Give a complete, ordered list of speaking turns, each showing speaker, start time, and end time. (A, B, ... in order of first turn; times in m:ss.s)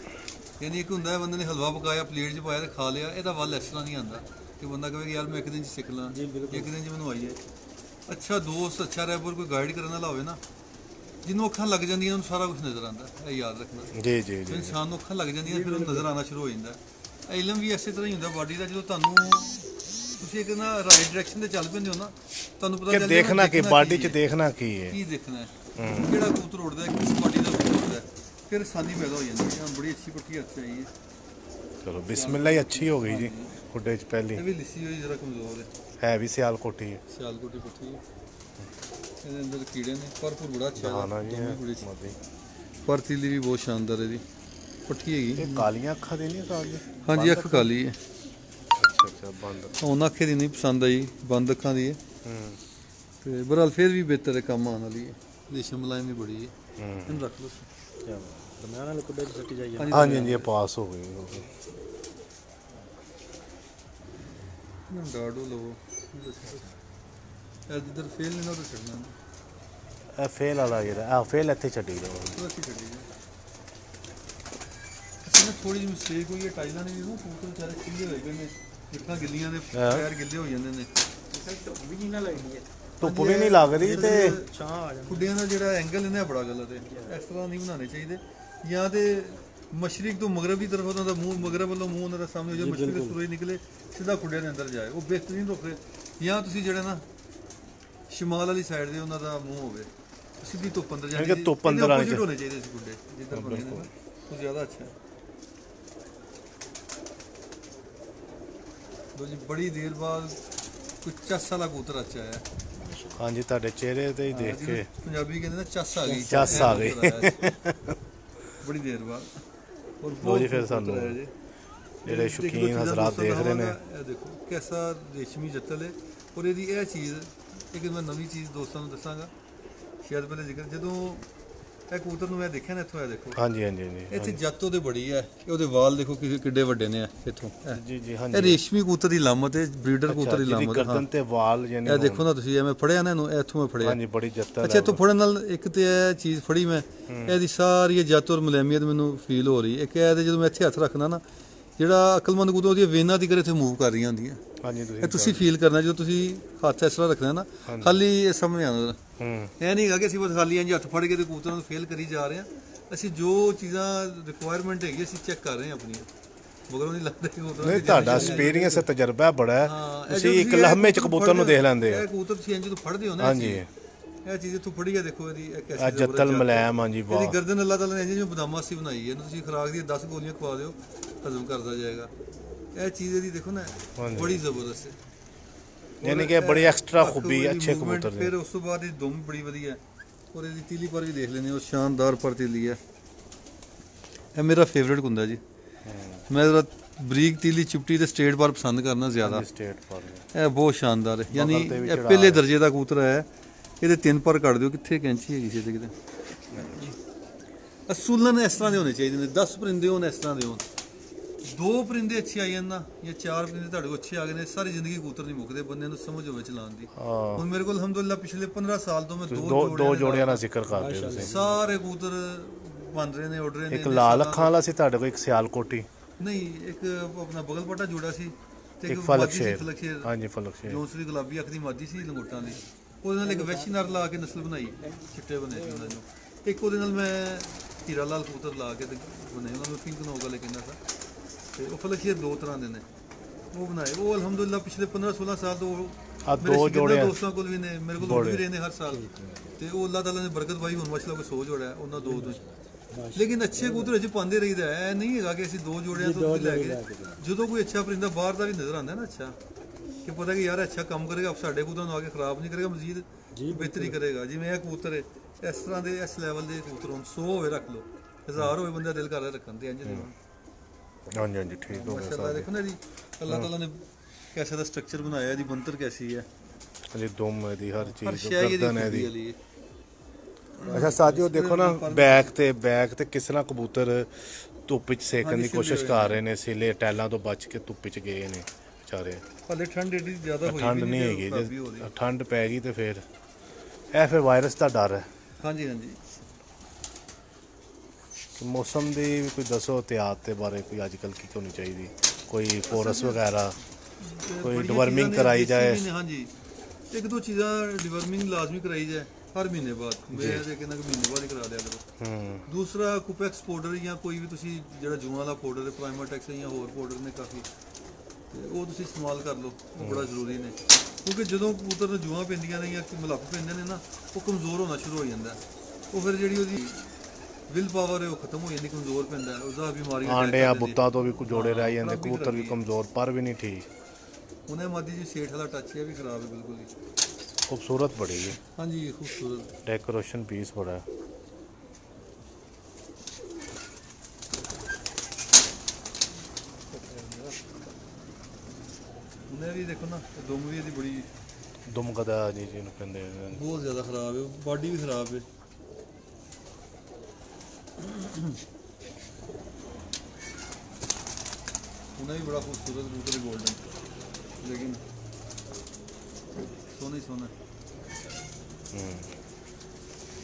0:00.6-0:07.4 A
0:06.1-0:06.7 B
0:08.1-0:10.4 A
0:11.2-0:13.9 A
0:13.9-0:14.8 C
0:14.5-0:24.2 A
0:15.4-0:16.1 B
0:22.9-0:25.0 C
0:24.9-0:30.9 A
0:25.8-0:26.1 C
0:31.8-0:34.4 C
0:32.1-0:33.6 A
0:34.4-0:35.7 A
0:36.0-0:37.0 C
0:37.1-0:38.0 A
0:39.2-0:41.8 A
0:40.8-0:42.2 C
0:42.8-0:44.2 A
0:44.9-0:45.7 A
0:45.4-0:47.7 C
0:47.0-0:48.0 A
0:48.8-0:49.8 C
0:49.8-0:52.0 A
0:52.2-0:52.6 C
0:53.2-0:56.5 A
0:56.8-0:57.3 C
0:57.1-0:57.7 A
0:58.1-1:00.1 B
0:59.8-1:00.5 A
0:59.9-1:01.5 C
1:04.9-1:06.7 A
1:07.7-1:09.2 A
1:10.2-1:12.4 C
1:12.3-1:13.1 A
1:15.2-1:20.9 A
1:19.7-1:20.1 C
1:21.3-1:22.7 B
1:23.0-1:24.4 C
1:23.0-1:24.5 A
1:23.8-1:25.3 B
1:25.1-1:37.1 A
1:26.8-1:27.1 B
1:32.5-1:33.2 B
1:38.1-1:39.9 A
1:40.4-1:44.9 A
1:41.1-1:42.3 C
1:43.3-1:43.9 C
1:49.2-1:50.4 A
1:51.0-1:52.4 A
1:52.8-1:53.2 B
1:53.2-1:54.9 C
1:54.3-1:57.5 A
1:56.0-1:56.9 B
1:56.2-1:58.0 C
1:58.6-1:59.4 A
2:00.0-2:01.3 A
2:00.2-2:01.2 C
2:02.0-2:03.8 C
2:02.0-2:09.3 A
2:10.0-2:11.3 A
2:11.9-2:13.4 A
2:13.4-2:14.4 C
2:14.1-2:21.1 A
2:17.7-2:18.6 C
2:20.1-2:22.3 C
2:21.8-2:24.0 A
2:23.8-2:25.0 C
2:24.6-2:31.2 A
2:27.1-2:27.4 C
2:31.8-2:34.4 A
2:34.6-2:35.5 C
2:35.0-2:39.0 A
2:37.7-2:38.0 C
2:39.2-2:39.5 C
2:39.6-2:46.1 A
2:46.7-2:48.9 A
2:47.6-2:52.1 C
2:47.8-2:48.6 B
2:49.6-2:53.6 A
2:53.2-2:53.7 C
2:54.2-3:02.1 A
2:55.8-2:57.4 C
3:02.7-3:05.0 A
3:04.0-3:04.4 C
3:06.0-3:09.8 A
3:06.0-3:08.3 C
3:10.3-3:12.8 A
3:14.4-3:15.4 A
3:15.8-3:16.3 C
3:16.3-3:19.4 A
3:19.2-3:20.3 C
3:20.3-3:23.3 A
3:21.3-3:22.4 C
3:23.8-3:25.9 A
3:26.5-3:27.0 C
3:27.9-3:30.7 A
3:31.4-3:40.4 A
3:37.0-3:37.5 C
3:39.3-3:41.3 C
3:40.7-3:41.5 B
3:41.2-3:44.6 A
3:43.7-3:45.9 C
3:46.2-3:50.1 A
3:48.9-3:50.8 C
3:50.6-4:00.8 A
3:53.2-3:54.2 B
3:54.8-3:56.0 B
4:01.6-4:02.9 A
4:03.5-4:09.0 A
4:06.2-4:07.2 C
4:08.0-4:08.5 C
4:08.9-4:09.6 B
4:09.6-4:12.4 A
4:12.0-4:13.9 B
4:13.1-4:19.4 A
4:15.9-4:17.2 B
4:20.0-4:30.2 A
4:23.4-4:24.0 B
4:31.1-4:32.5 C
4:31.7-4:36.3 A
4:36.9-4:39.1 C
4:37.8-4:39.4 A
4:40.6-4:42.3 A
4:40.6-4:49.2 C
4:45.2-4:46.2 A
4:49.5-4:51.9 A
4:50.4-4:53.0 C
4:53.9-4:55.1 C
4:55.4-4:56.0 A
4:58.4-5:03.6 C
5:02.7-5:03.2 A
5:04.0-5:06.3 A
5:04.4-5:05.8 C
5:06.9-5:11.8 A
5:10.1-5:10.4 C
5:12.0-5:12.4 C
5:12.5-5:17.5 A
5:18.3-5:26.9 A
5:19.8-5:20.1 C
5:27.5-5:32.6 A
5:30.0-5:33.7 C
5:34.5-5:36.7 A
5:37.5-5:38.4 C
5:38.6-5:39.5 A
5:39.7-5:40.8 C
5:46.7-5:47.4 A
5:49.3-5:51.1 A
5:51.7-5:53.4 C
5:53.3-5:55.2 A
5:57.8-5:58.2 A
6:02.0-6:03.6 A
6:04.4-6:04.8 A
6:06.7-6:07.3 A
6:08.7-6:09.2 C